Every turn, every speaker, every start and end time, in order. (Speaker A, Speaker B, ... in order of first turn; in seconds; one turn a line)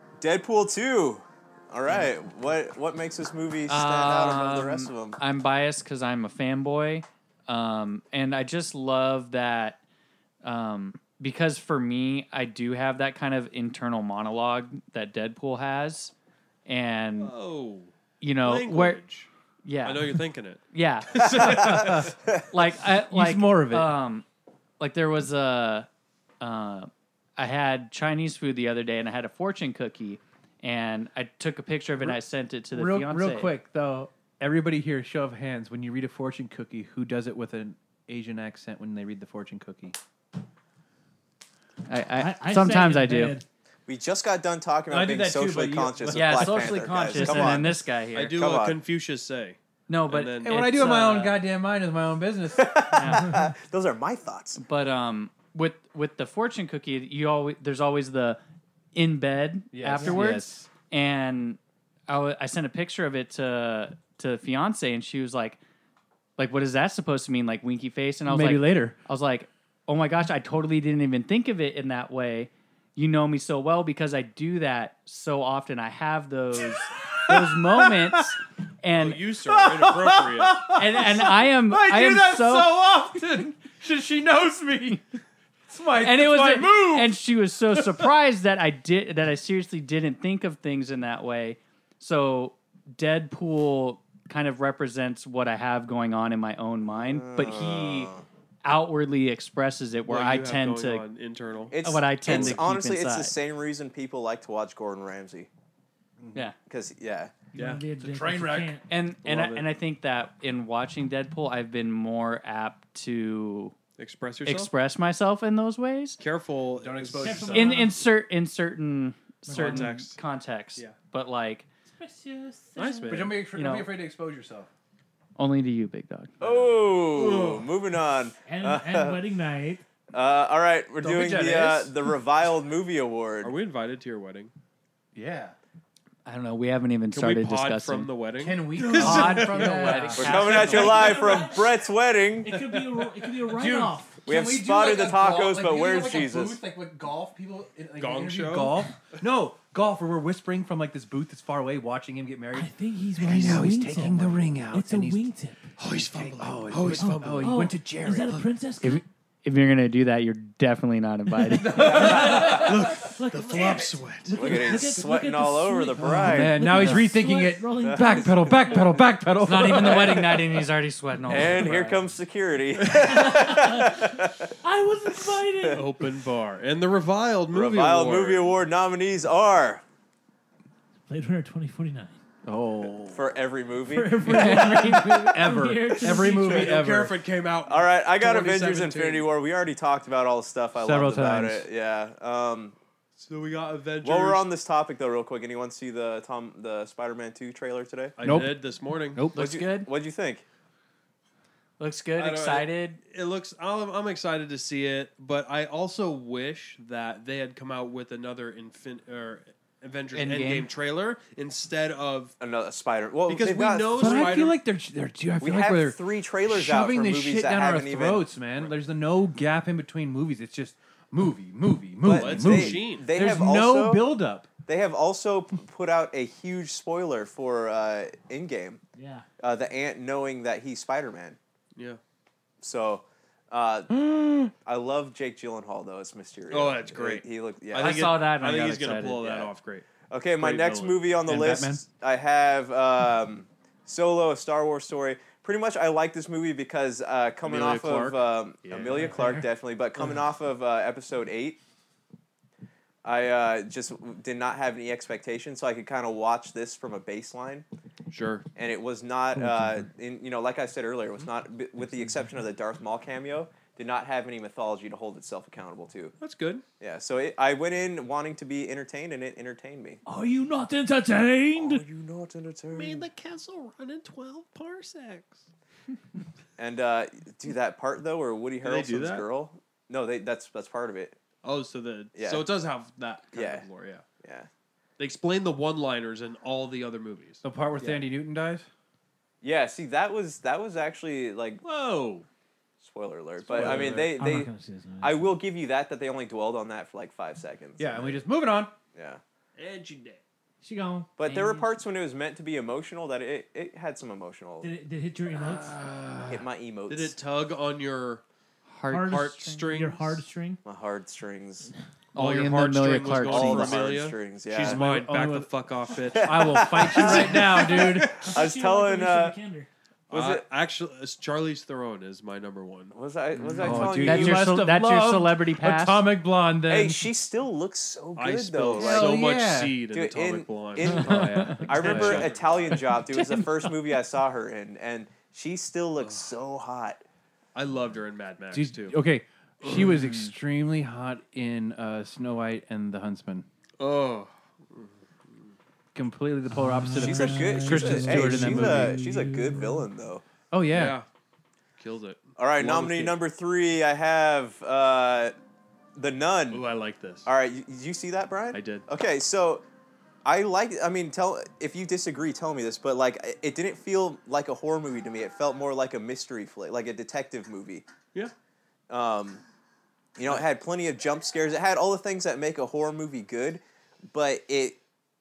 Speaker A: 0.2-5.2
Speaker B: 3.7-9.8
Speaker B: 10.4-16.1
Speaker B: 16.6-17.3
Speaker C: 17.2-19.3
Speaker B: 18.2-19.0
Speaker B: 19.6-20.2
Speaker C: 19.8-22.1
Speaker B: 20.7-22.0
Speaker A: 21.4-22.4
Speaker D: 21.7-22.1
Speaker B: 22.5-24.2
Speaker D: 23.0-23.9
Speaker B: 24.8-25.9
Speaker B: 26.4-33.5
Speaker D: 32.7-40.0
Speaker B: 41.9-43.4
Speaker E: 42.1-43.4
Speaker A: 43.9-48.8
Speaker D: 44.9-47.7
Speaker B: 46.1-48.4
Speaker C: 48.1-51.1
Speaker B: 49.9-51.4
Speaker D: 50.4-52.8
Speaker A: 52.5-54.6
Speaker B: 52.9-53.4
Speaker B: 54.6-58.4
Speaker B: 58.9-65.6
Speaker D: 59.7-60.7
Speaker B: 66.4-79.2
Speaker D: 68.2-69.0
Speaker D: 76.6-78.3
Speaker C: 78.9-80.8
Speaker D: 79.4-87.2
Speaker B: 80.8-82.8
Speaker B: 86.0-98.1
Speaker D: 87.7-88.1
Speaker A: 96.9-98.2
Speaker B: 98.6-101.0
Speaker C: 100.1-102.6
Speaker A: 101.7-105.5
Speaker B: 101.8-103.3
Speaker D: 106.2-106.5
Speaker A: 106.7-107.3
Speaker E: 107.5-108.8
Speaker C: 107.5-107.8
Speaker D: 108.0-108.8
Speaker B: 108.9-113.7
Speaker C: 109.2-109.7
Speaker C: 114.0-114.7
Speaker B: 114.4-116.2
Speaker C: 116.2-117.5
Speaker D: 116.8-117.9
Speaker E: 117.2-118.0
Speaker B: 117.5-121.7
Speaker E: 119.5-119.9
Speaker C: 119.5-120.2
Speaker E: 121.9-123.3
Speaker C: 122.8-123.4
Speaker D: 123.1-124.7
Speaker B: 123.5-123.9
Speaker B: 125.3-126.3
Speaker A: 126.4-129.2
Speaker C: 126.4-127.7
Speaker E: 128.4-129.8
Speaker A: 130.1-133.5
Speaker D: 131.0-131.9
Speaker C: 133.4-134.5
Speaker D: 135.1-135.5
Speaker B: 136.2-138.1
Speaker C: 137.1-140.0
Speaker D: 138.4-140.8
Speaker E: 138.8-141.8
Speaker B: 138.9-141.3
Speaker A: 140.2-142.8
Speaker E: 142.4-144.2
Speaker D: 143.0-155.2
Speaker A: 144.2-146.6
Speaker C: 148.0-148.9
Speaker E: 152.5-155.6
Speaker C: 155.8-157.7
Speaker D: 155.9-158.5
Speaker E: 157.0-159.0
Speaker B: 158.8-162.3
Speaker D: 161.4-162.7
Speaker E: 161.7-169.0
Speaker C: 161.9-164.6
Speaker A: 164.3-166.6
Speaker D: 166.0-170.5
Speaker B: 166.7-167.1
Speaker A: 167.8-168.8
Speaker B: 169.4-172.0
Speaker A: 169.7-170.4
Speaker A: 171.2-174.5
Speaker E: 172.8-175.9
Speaker A: 175.3-175.9
Speaker C: 175.7-178.5
Speaker A: 177.5-179.8
Speaker E: 181.1-182.2
Speaker D: 182.4-183.2
Speaker A: 183.1-184.5
Speaker E: 183.9-186.7
Speaker D: 184.2-187.1
Speaker B: 184.6-185.2
Speaker C: 186.2-189.3
Speaker A: 187.7-192.7
Speaker D: 190.8-191.7
Speaker C: 193.2-194.4
Speaker A: 194.0-198.1
Speaker C: 198.2-199.3
Speaker D: 198.2-199.4
Speaker B: 199.3-199.9
Speaker A: 199.3-200.4
Speaker B: 201.8-203.0
Speaker C: 202.2-212.3
Speaker B: 210.1-210.7
Speaker A: 212.4-214.4
Speaker C: 213.3-214.6
Speaker D: 214.0-224.5
Speaker A: 215.4-218.7
Speaker A: 222.0-224.1
Speaker C: 222.1-223.1
Speaker A: 224.7-228.8
Speaker E: 228.9-229.2
Speaker A: 229.4-231.4
Speaker C: 231.7-232.0
Speaker A: 232.6-233.9
Speaker D: 233.9-234.5
Speaker A: 234.6-238.1
Speaker C: 236.5-239.9
Speaker B: 237.8-239.3
Speaker A: 239.2-239.5
Speaker A: 240.1-251.6
Speaker C: 240.4-241.0
Speaker D: 241.2-241.8
Speaker C: 247.4-249.2
Speaker E: 249.0-249.4
Speaker A: 253.0-257.6
Speaker C: 258.1-258.4
Speaker A: 258.6-266.1
Speaker D: 259.4-259.8
Speaker C: 266.2-266.6
Speaker A: 266.8-270.0
Speaker E: 270.1-271.8
Speaker A: 271.6-273.1
Speaker C: 272.7-275.4
Speaker A: 276.6-281.2
Speaker C: 278.6-279.2
Speaker C: 281.4-284.0
Speaker A: 282.1-282.4
Speaker A: 283.3-283.6
Speaker A: 284.2-284.5
Speaker C: 285.0-288.0
Speaker D: 287.4-288.7
Speaker A: 289.4-291.6
Speaker C: 291.6-292.2
Speaker A: 292.8-294.5
Speaker D: 293.5-294.2
Speaker C: 293.5-293.9
Speaker E: 293.9-295.3
Speaker A: 295.0-298.2
Speaker D: 297.8-298.7
Speaker A: 298.9-299.2
Speaker C: 299.6-300.2
Speaker E: 300.6-301.1
Speaker A: 301.2-304.7
Speaker B: 301.2-301.7
Speaker E: 304.6-305.8
Speaker D: 305.4-306.4
Speaker A: 306.3-307.1
Speaker C: 306.9-308.2
Speaker B: 308.7-309.6
Speaker E: 308.9-310.6
Speaker C: 309.0-310.2
Speaker A: 310.6-311.7
Speaker B: 312.1-313.9
Speaker C: 312.1-316.6
Speaker A: 313.2-314.8
Speaker D: 314.6-315.5
Speaker A: 316.1-319.4
Speaker D: 316.2-318.4
Speaker E: 317.0-319.7
Speaker A: 320.1-320.4
Speaker C: 320.1-322.9
Speaker A: 322.9-324.6
Speaker D: 323.5-327.1
Speaker C: 323.6-323.8
Speaker B: 323.9-326.1
Speaker A: 326.7-329.3
Speaker C: 328.1-331.2
Speaker D: 328.8-329.8
Speaker A: 329.9-337.0
Speaker D: 330.8-332.4
Speaker C: 331.7-332.8
Speaker C: 337.5-339.0
Speaker D: 338.5-343.5
Speaker B: 339.8-340.3
Speaker C: 343.8-345.5
Speaker D: 345.9-349.0
Speaker E: 346.5-349.9
Speaker A: 346.9-350.2
Speaker D: 350.5-351.0
Speaker C: 350.7-351.1
Speaker C: 351.8-353.2
Speaker A: 352.4-355.3
Speaker A: 355.9-356.6
Speaker C: 356.5-357.3
Speaker A: 357.2-359.6
Speaker C: 358.5-358.9
Speaker A: 360.2-367.9
Speaker A: 368.9-369.4
Speaker A: 370.1-374.8